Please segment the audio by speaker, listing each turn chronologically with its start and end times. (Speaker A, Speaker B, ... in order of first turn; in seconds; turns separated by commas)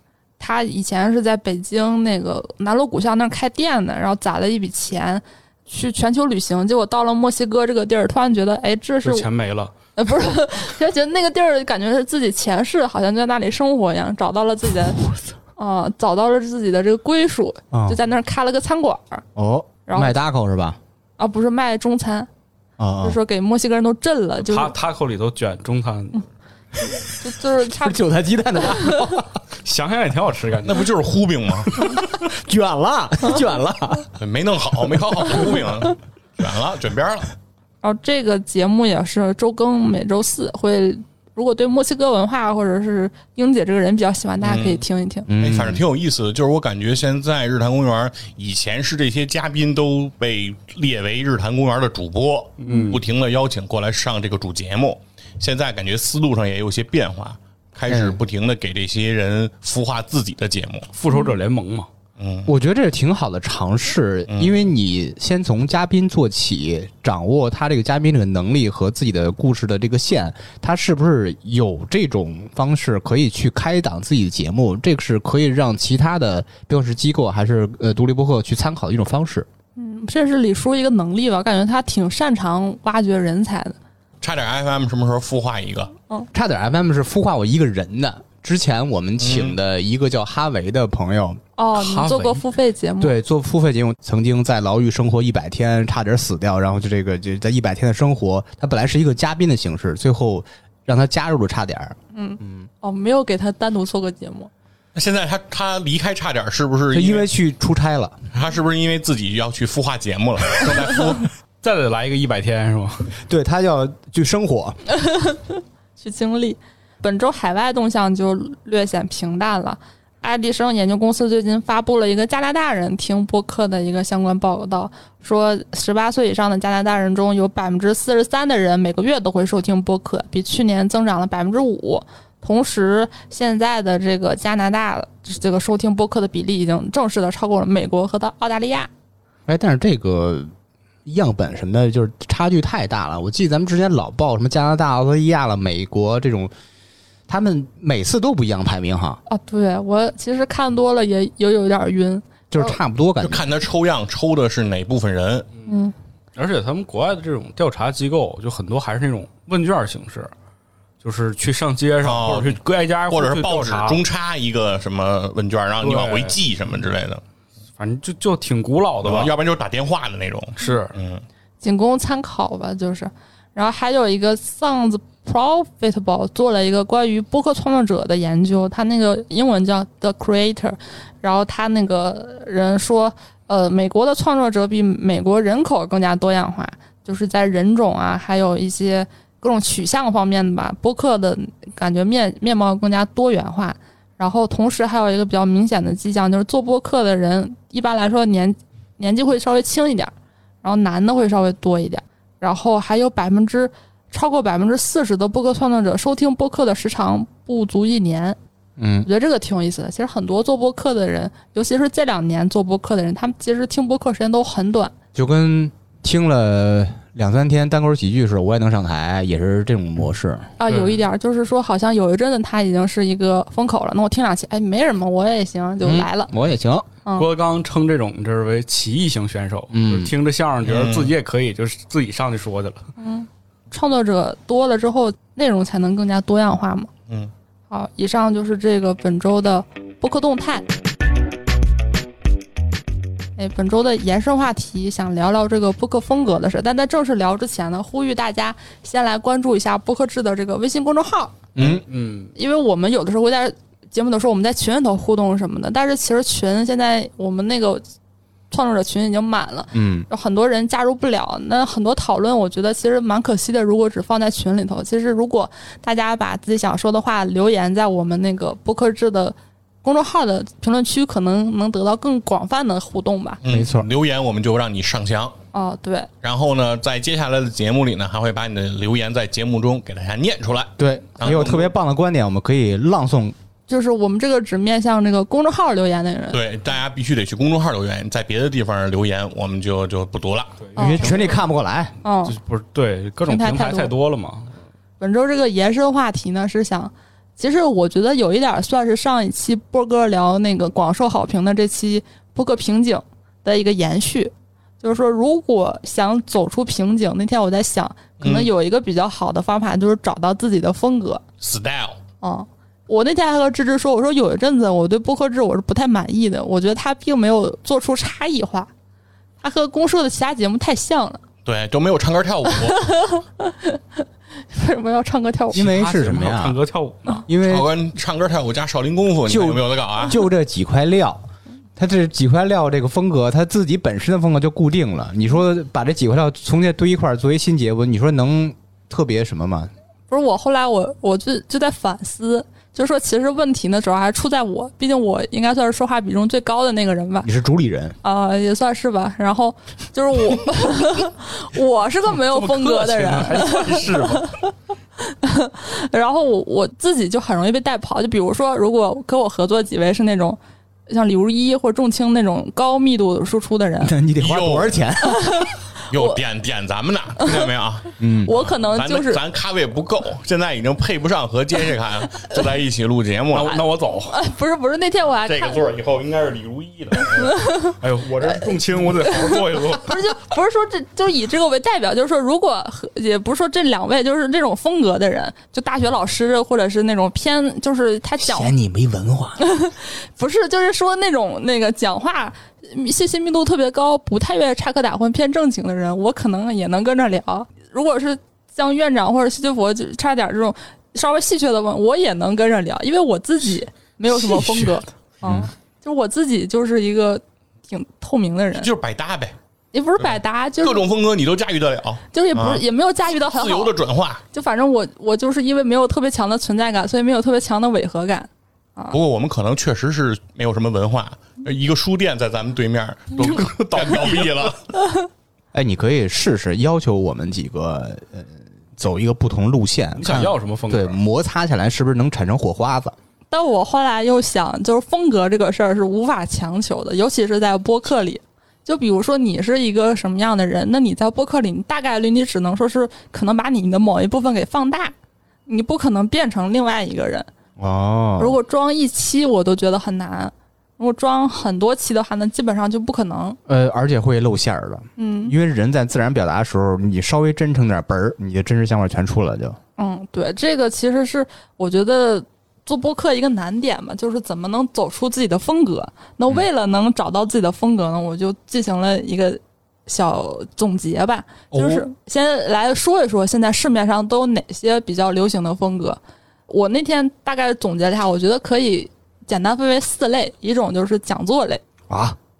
Speaker A: 0.4-9.3, Speaker B: 9.0-9.7, Speaker A: 9.9-15.0, Speaker A: 15.6-19.2, Speaker C: 17.7-18.0, Speaker C: 19.4-20.8, Speaker A: 19.9-20.1, Speaker A: 21.2-22.3, Speaker C: 22.8-23.2, Speaker A: 23.0-24.7, Speaker B: 24.4-26.2, Speaker A: 27.1-28.0, Speaker C: 27.7-29.4, Speaker A: 28.8-29.1, Speaker B: 29.6-30.9, Speaker D: 30.6-31.8, Speaker C: 32.0-34.1, Speaker D: 34.2-37.3, Speaker A: 37.8-45.3, Speaker D: 44.4-44.8, Speaker C: 45.3-45.8, Speaker D: 45.4-60.9, Speaker B: 52.6-53.0, Speaker C: 57.9-58.2, Speaker B: 60.9-61.9, Speaker A: 61.1-61.3, Speaker D: 62.2-62.5, Speaker C: 62.5-79.5, Speaker D: 64.3-64.7, Speaker A: 79.8-83.8, Speaker D: 84.2-85.9, Speaker C: 86.3-92.4, Speaker D: 89.2-89.6, Speaker A: 91.6-93.2, Speaker C: 93.0-102.7, Speaker A: 102.1-104.5, Speaker D: 104.9-107.3, Speaker C: 106.9-108.2, Speaker D: 108.3-111.3, Speaker B: 111.6-113.2, Speaker C: 113.3-114.8, Speaker A: 114.9-138.9, Speaker C: 139.5-140.5, Speaker C: 141.0-146.5, Speaker C: 147.3-149.2, Speaker A: 149.3-152.8, Speaker C: 152.5-153.4, Speaker D: 153.2-155.5, Speaker A: 155.7-155.9, Speaker B: 156.3-160.3, Speaker B: 161.0-164.0, Speaker D: 162.0-162.6, Speaker D: 163.1-167.2, Speaker B: 165.8-166.4, Speaker B: 167.8-169.3, Speaker D: 169.0-171.2, Speaker B: 170.6-170.9, Speaker A: 171.6-208.4, Speaker C: 208.8-209.1, Speaker A: 209.0-214.9, Speaker C: 215.1-220.5, Speaker A: 220.6-226.3, Speaker B: 220.7-221.0, Speaker C: 225.8-226.9, Speaker B: 227.1-232.8, Speaker C: 229.7-230.1, Speaker D: 230.6-231.1, Speaker A: 233.0-236.9, Speaker A: 237.7-240.6, Speaker A: 243.4-251.4, Speaker C: 251.6-251.8, Speaker B: 251.6-252.3, Speaker A: 252.3-257.8, Speaker A: 258.5-273.4, Speaker C: 259.7-260.1, Speaker D: 273.4-275.4, Speaker C: 273.4-273.9, Speaker A: 275.5-276.1, Speaker D: 276.2-281.7, Speaker C: 280.8-283.3, Speaker A: 283.7-286.4, Speaker D: 286.3-290.6, Speaker B: 290.6-291.4, Speaker A: 290.7-291.4, Speaker C: 290.8-291.9, Speaker A: 292.0-292.4, Speaker B: 292.2-294.5, Speaker A: 293.2-293.9, Speaker A: 295.0-311.2, Speaker D: 308.2-308.5, Speaker D: 311.4-312.0, Speaker A: 312.2-318.7, Speaker A: 319.4-321.2, Speaker D: 321.4-323.1, Speaker A: 322.5-325.7, Speaker C: 325.5-326.6, Speaker B: 325.5-327.3, Speaker C: 327.3-327.7, Speaker D: 327.4-330.2, Speaker C: 329.2-331.2, Speaker C: 331.8-339.7, Speaker A: 340.1-347.3, Speaker C: 347.2-348.0, Speaker A: 348.0-363.9, Speaker B: 352.1-354.3, Speaker C: 363.8-365.4, Speaker D: 364.1-364.8, Speaker A: 365.0-366.2, Speaker D: 365.9-373.6, Speaker A: 367.2-367.5, Speaker C: 368.0-368.4, Speaker A: 368.2-369.2, Speaker B: 373.3-374.1, Speaker A: 374.1-375.6, Speaker D: 375.3-377.4, Speaker A: 377.2-377.7, Speaker B: 377.6-380.1, Speaker A: 379.1-388.5, Speaker C: 388.2-389.4, Speaker A: 389.4-408.7, Speaker C: 405.2-405.5, Speaker D: 408.6-409.3, Speaker A: 409.7-410.9, Speaker D: 410.0-412.6, Speaker A: 412.1-413.7, Speaker D: 413.3-414.2, Speaker A: 414.3-419.0, Speaker D: 418.9-424.6, Speaker B: 423.2-424.5, Speaker C: 425.5-432.9, Speaker B: 430.0-431.0, Speaker A: 433.3-444.9, Speaker A: 445.5-447.3, Speaker C: 447.6-448.4, Speaker A: 448.2-453.4, Speaker C: 453.5-459.6, Speaker A: 455.0-455.3, Speaker A: 459.8-481.6, Speaker D: 471.5-471.8, Speaker C: 481.9-482.2